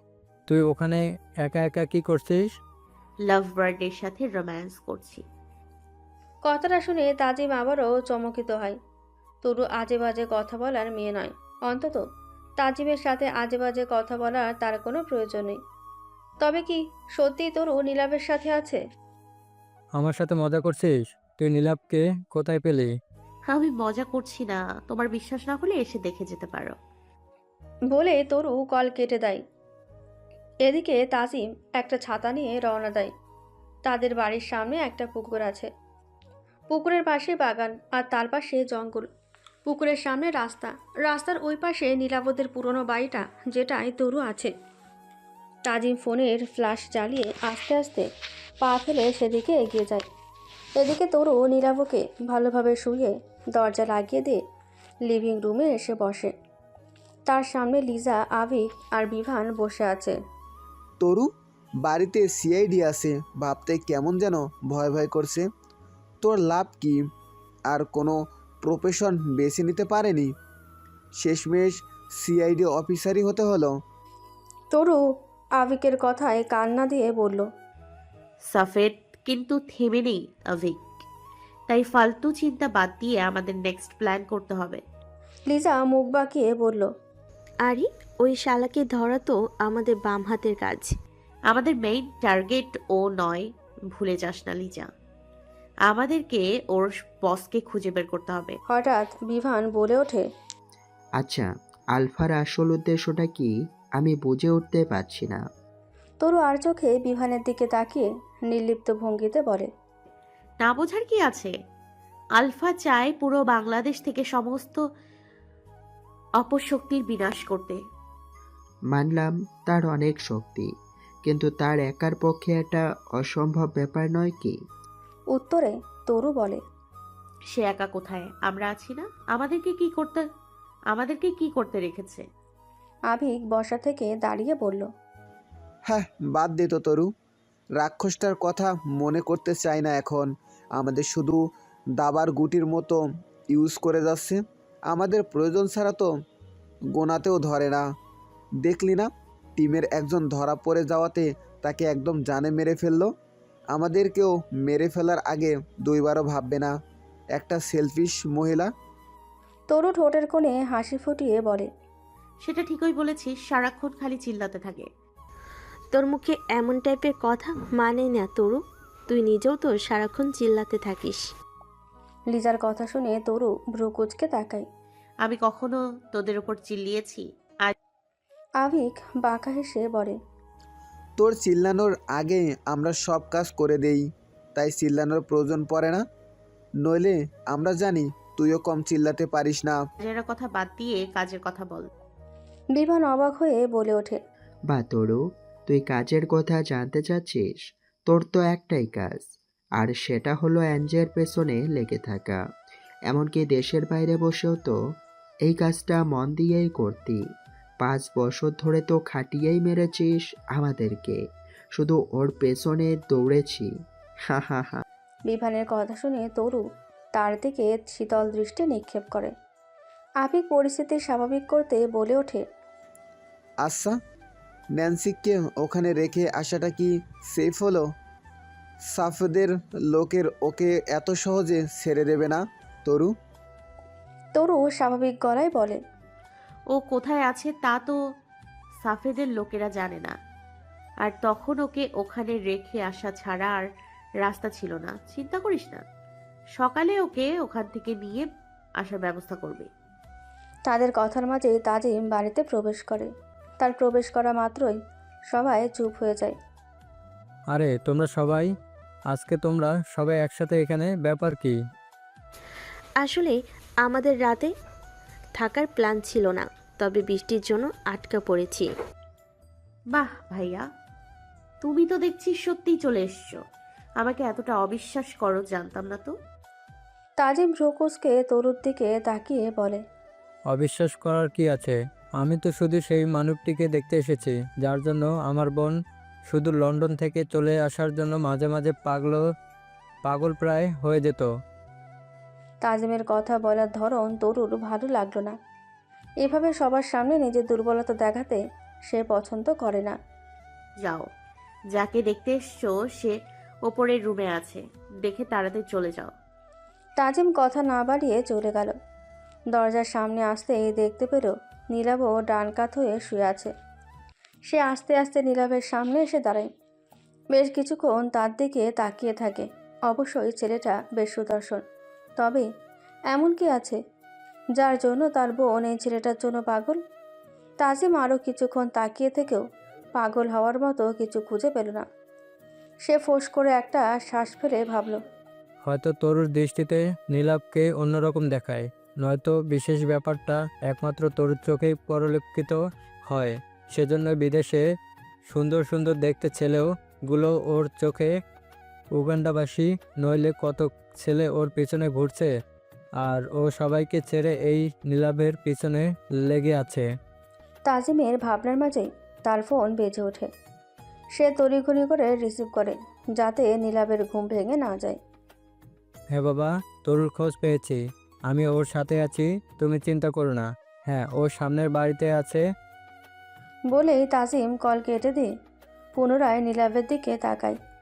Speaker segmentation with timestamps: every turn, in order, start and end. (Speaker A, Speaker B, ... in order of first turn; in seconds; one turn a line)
Speaker A: 0.5-2.5
Speaker B: 3.3-5.2
Speaker C: 6.5-8.8
Speaker C: 9.4-12.0
Speaker C: 12.6-15.6
Speaker C: 16.4-18.8
Speaker A: 20.0-22.9
Speaker B: 23.5-26.8
Speaker C: 27.9-29.4
Speaker C: 30.7-33.1
Speaker C: 33.9-35.7
Speaker C: 36.7-39.1
Speaker C: 39.7-44.5
Speaker C: 45.7-48.1
Speaker C: 48.6-50.0
Speaker C: 50.8-54.4
Speaker C: 55.1-56.3
Speaker C: 57.3-60.2
Speaker D: 61.0-61.3
Speaker D: 61.8-65.5
Speaker D: 66.2-67.0
Speaker D: 67.7-70.3
Speaker D: 71.2-73.7
Speaker C: 74.7-75.0
Speaker C: 75.6-77.5
Speaker B: 78.5-80.9
Speaker B: 81.7-84.8
Speaker C: 85.5-86.9
Speaker E: 87.7-90.9
Speaker B: 91.5-94.9
Speaker B: 95.8-98.6
Speaker C: 98.7-100.2
Speaker F: 101.2-105.4
Speaker C: 106.2-109.7
Speaker B: 110.6-111.5
Speaker B: 112.4-114.8
Speaker B: 116.4-117.8
Speaker F: 118.9-120.7
Speaker F: 121.3-124.5
Speaker C: 125.3-126.6
Speaker B: 127.5-130.2
Speaker B: 130.9-132.3
Speaker C: 133.1-134.9
Speaker D: 135.9-137.1
Speaker D: 137.8-141.4
Speaker D: 142.0-146.1
Speaker D: 146.9-147.8
Speaker D: 148.6-153.1
Speaker D: 153.7-156.7
Speaker D: 157.4-158.7
Speaker C: 159.7-161.7
Speaker B: 162.4-164.9
Speaker E: 165.9-171.3
Speaker C: 172.3-174.7
Speaker B: 175.2-177.8
Speaker C: 178.6-180.2
Speaker D: 181.2-186.0
Speaker D: 186.8-189.8
Speaker B: 190.0-191.9
Speaker C: 192.8-194.2
Speaker F: 194.7-197.6
Speaker F: 198.1-199.3
Speaker F: 199.8-202.4
Speaker F: 203.1-204.8
Speaker F: 205.5-207.2
Speaker F: 207.8-211.2
Speaker F: 211.8-213.7
Speaker F: 214.3-214.8
Speaker C: 215.3-216.6
Speaker C: 217.2-219.3
Speaker C: 220.2-222.4
Speaker D: 223.6-224.0
Speaker D: 224.8-227.9
Speaker D: 228.9-233.1
Speaker C: 234.3-235.8
Speaker B: 236.7-238.0
Speaker B: 238.8-240.2
Speaker B: 241.0-243.7
Speaker B: 244.2-245.8
Speaker B: 246.6-248.3
Speaker B: 248.8-249.7
Speaker C: 250.7-253.1
Speaker C: 253.6-254.8
Speaker C: 255.3-256.4
Speaker A: 257.5-258.5
Speaker A: 259.1-261.6
Speaker E: 263.0-264.5
Speaker E: 265.4-268.7
Speaker B: 269.9-270.7
Speaker B: 271.6-273.4
Speaker B: 274.0-276.1
Speaker C: 277.2-279.8
Speaker A: 280.5-285.7
Speaker A: 286.3-289.2
Speaker A: 290.1-291.3
Speaker C: 292.6-295.4
Speaker C: 296.2-300.0
Speaker B: 300.8-301.1
Speaker B: 301.7-306.1
Speaker C: 307.0-308.8
Speaker C: 309.5-313.5
Speaker C: 314.5-316.5
Speaker C: 317.3-321.6
Speaker C: 322.2-322.5
Speaker C: 323.1-323.8
Speaker C: 324.6-326.8
Speaker C: 327.6-329.4
Speaker C: 330.0-331.9
Speaker C: 332.9-335.0
Speaker A: 335.6-344.6
Speaker A: 345.3-348.1
Speaker A: 348.9-352.3
Speaker A: 353.0-356.9
Speaker C: 357.7-360.3
Speaker C: 361.2-365.0
Speaker A: 366.1-372.4
Speaker C: 373.7-375.3
Speaker C: 376.0-377.6